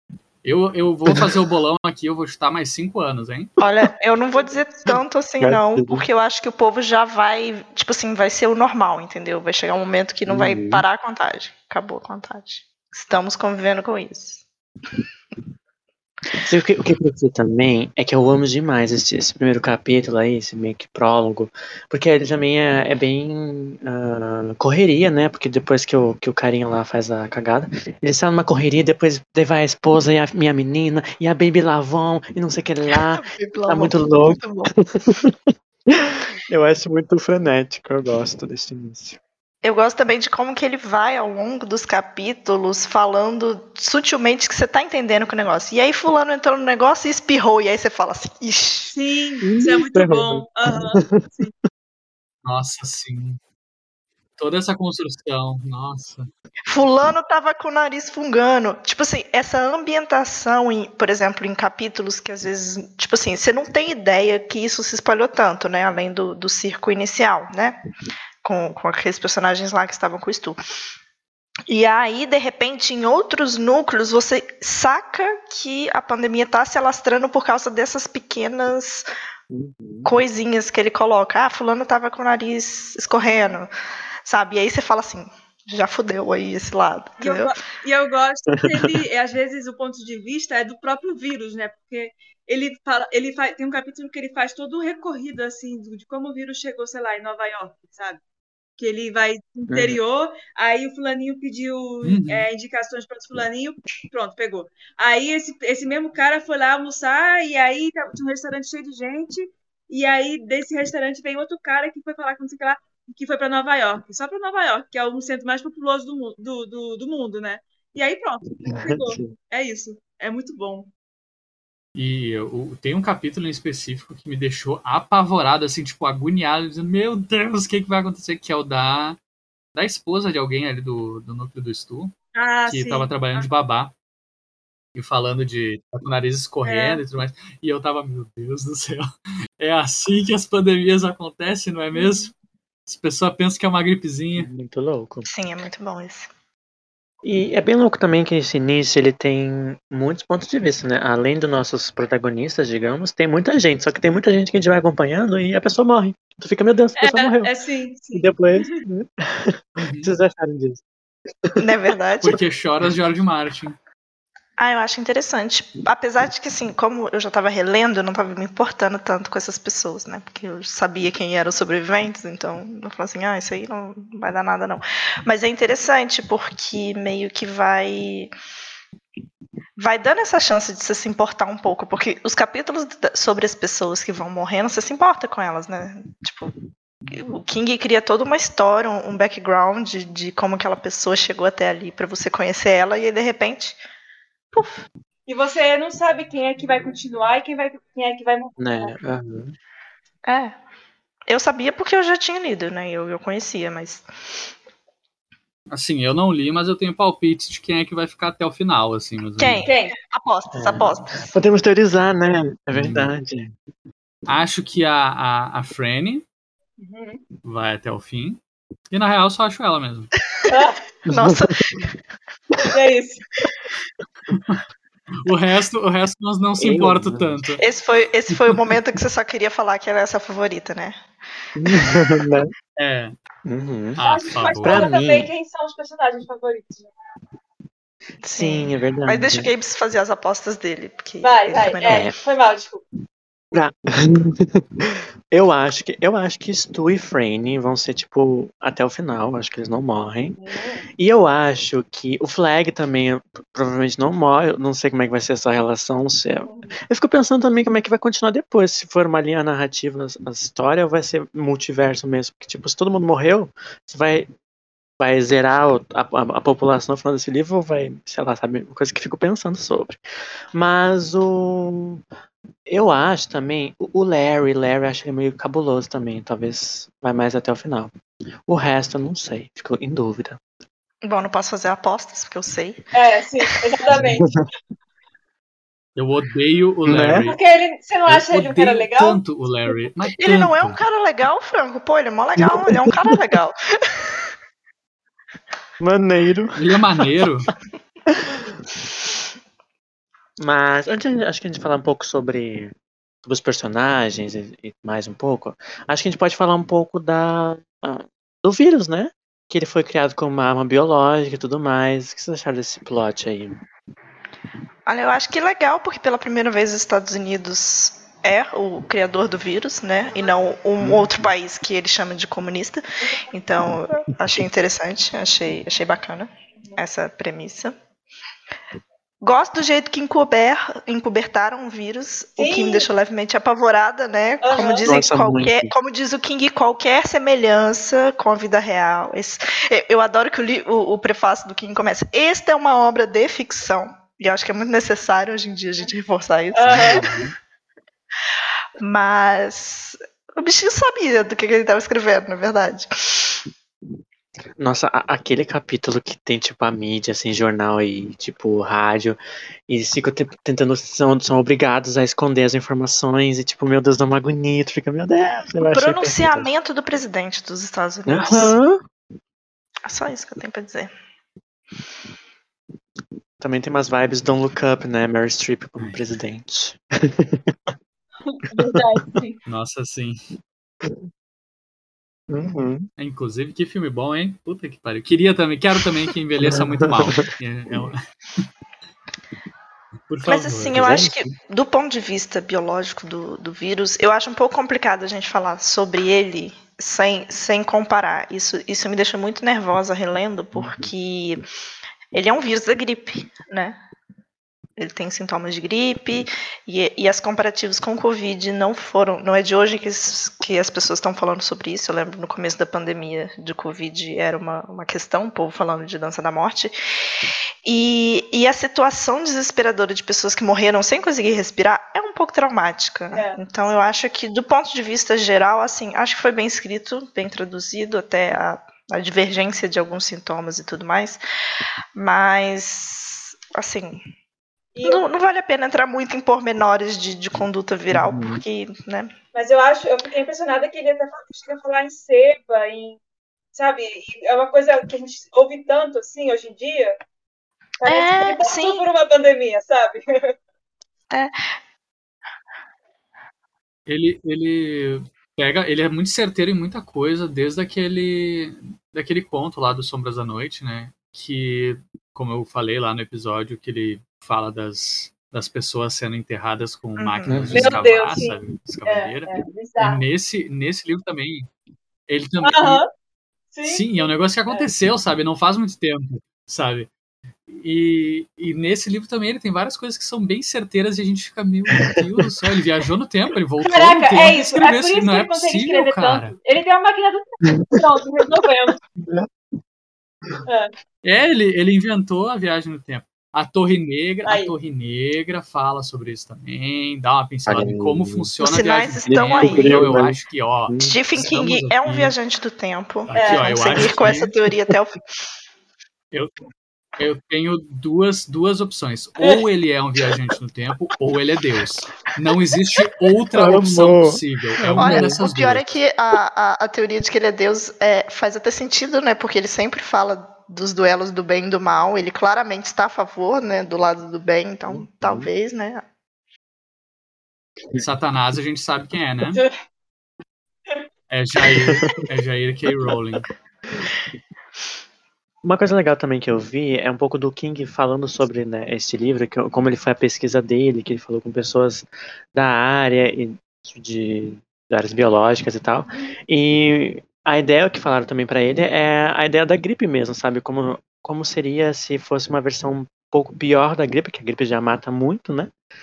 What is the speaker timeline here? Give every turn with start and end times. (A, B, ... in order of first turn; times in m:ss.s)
0:00.4-0:03.5 A
0:03.6-0:14.4 B
0:05.4-0:06.0 C
0:10.3-0:10.8 C
0:16.4-0:39.2 C
0:33.1-0:34.7 B
0:39.6-0:48.9 B
0:48.9-0:51.5 D
0:49.4-0:51.2 C
0:52.4-0:53.4 A
0:54.4-0:56.3 A
0:56.7-1:07.8 B
1:08.4-1:10.6 B
1:11.7-1:19.0 B
1:19.5-1:20.1 C
1:20.0-1:23.7 B
1:24.2-1:27.5 B
1:27.2-1:38.2 D
1:28.5-1:28.9 C
1:38.8-2:00.9 D
1:39.7-1:40.0 C
1:42.0-1:42.5 A
1:58.7-1:59.4 C
2:02.0-2:09.2 A
2:09.8-2:12.1 A
2:12.4-2:13.5 D
2:12.7-2:13.9 A
2:15.0-2:19.1 A
2:16.6-2:17.0 D
2:19.6-2:22.3 A
2:21.9-2:22.3 D
2:22.9-2:24.5 A
2:24.4-2:25.3 C
2:25.3-2:26.3 B
2:27.2-2:37.5 C
2:37.0-2:38.7 D
2:38.1-2:40.8 C
2:39.8-2:40.1 A
2:41.6-2:42.4 B
2:42.2-2:43.8 A
2:44.6-2:58.3 B
2:59.8-3:06.5 B
3:07.1-3:13.8 B
3:14.5-3:14.9 B
3:15.3-3:19.0 D
3:18.6-3:19.6 C
3:20.3-3:20.6 B
3:21.3-3:24.1 B
3:25.7-3:29.7 A
3:29.4-3:31.3 B
3:29.7-3:30.0 D
3:30.5-3:33.5 C
3:32.7-3:33.1 A
3:34.3-3:36.2 A
3:36.8-3:37.2 D
3:37.4-3:38.4 A
3:38.9-3:40.1 A
3:40.5-3:40.8 D
3:41.1-3:41.9 B
3:41.1-3:41.8 C
3:42.6-3:43.2 D
3:44.3-3:44.6 A
3:45.2-3:47.6 A
3:46.6-3:47.4 C
3:47.6-3:51.0 B
3:51.6-3:52.5 C
3:52.8-3:53.2 A
3:53.5-3:54.0 C
3:54.0-3:54.9 A
3:54.0-3:56.9 D
3:54.5-3:55.3 C
3:58.2-4:02.1 B
3:58.3-3:59.5 C
4:01.2-4:02.8 D
4:01.9-4:02.1 C
4:03.5-4:10.4 C
4:10.4-4:10.9 D
4:11.0-4:24.3 C
4:16.5-4:16.8 D
4:25.0-4:30.0 C
4:30.5-4:32.0 C
4:32.7-4:37.9 C
4:38.5-4:40.4 C
4:41.0-4:42.8 B
4:42.9-4:44.2 D
4:43.9-4:44.4 C
4:46.0-4:47.4 A
4:46.9-4:47.3 C
4:47.3-4:49.2 D
4:48.1-4:50.8 A
4:50.2-4:54.3 B
4:52.4-4:53.2 C
4:55.8-4:57.2 C
4:56.6-4:57.5 A
4:58.1-4:58.5 C
5:00.4-5:13.6 C
5:14.9-5:27.8 B
5:20.8-5:21.3 C
5:29.2-5:47.1 B
5:32.4-5:32.9 D
5:34.4-5:34.9 D
5:34.9-5:35.7 C
5:46.5-5:47.0 D
5:46.7-5:47.3 A
5:48.8-5:53.4 B
5:54.6-6:06.5 C
6:05.7-6:08.6 B
6:08.1-6:08.8 C
6:09.9-6:10.9 B
6:13.4-6:17.8 C
6:18.2-6:19.4 D
6:19.5-6:20.2 A
6:20.8-6:21.1 C
6:22.3-6:22.9 C
6:23.0-6:28.0 A
6:26.4-6:27.9 C
6:30.1-6:31.0 A
6:30.2-6:41.4 B
6:30.7-6:31.3 C
6:40.6-6:40.9 C
6:42.1-6:43.8 B
6:44.8-6:56.8 B
6:57.6-7:11.2 B
7:03.1-7:03.4 D
7:12.0-7:14.0 B
7:14.8-7:15.0 D
7:14.8-7:19.1 B
7:17.9-7:18.4 C
7:19.3-7:23.0 D
7:23.5-7:26.9 D
7:27.8-7:30.3 D
7:27.8-7:28.8 B
7:33.9-7:51.5 A
7:47.0-7:47.6 B
7:47.3-7:47.8 C
7:47.5-7:50.0 D
7:52.1-7:52.8 A
7:52.4-7:52.9 D
7:53.5-7:54.7 D
7:53.6-7:56.9 A
7:57.5-8:06.4 A
8:03.6-8:08.8 D
8:07.4-8:07.8 C
8:09.0-8:09.3 C
8:10.5-8:10.7 D
8:11.0-8:22.1 A
8:14.2-8:14.5 D
8:17.5-8:18.3 C
8:18.4-8:20.0 B
8:19.0-8:20.2 C
8:20.7-8:21.0 C
8:20.9-8:25.0 B
8:23.1-8:24.3 A
8:23.2-8:23.8 D
8:27.0-8:35.8 A
8:33.3-8:35.2 C
8:34.8-8:45.8 B
8:44.7-8:45.3 C
8:47.8-8:49.4 A
8:51.1-8:53.3 A
8:51.6-8:52.0 C
8:55.4-9:15.5 C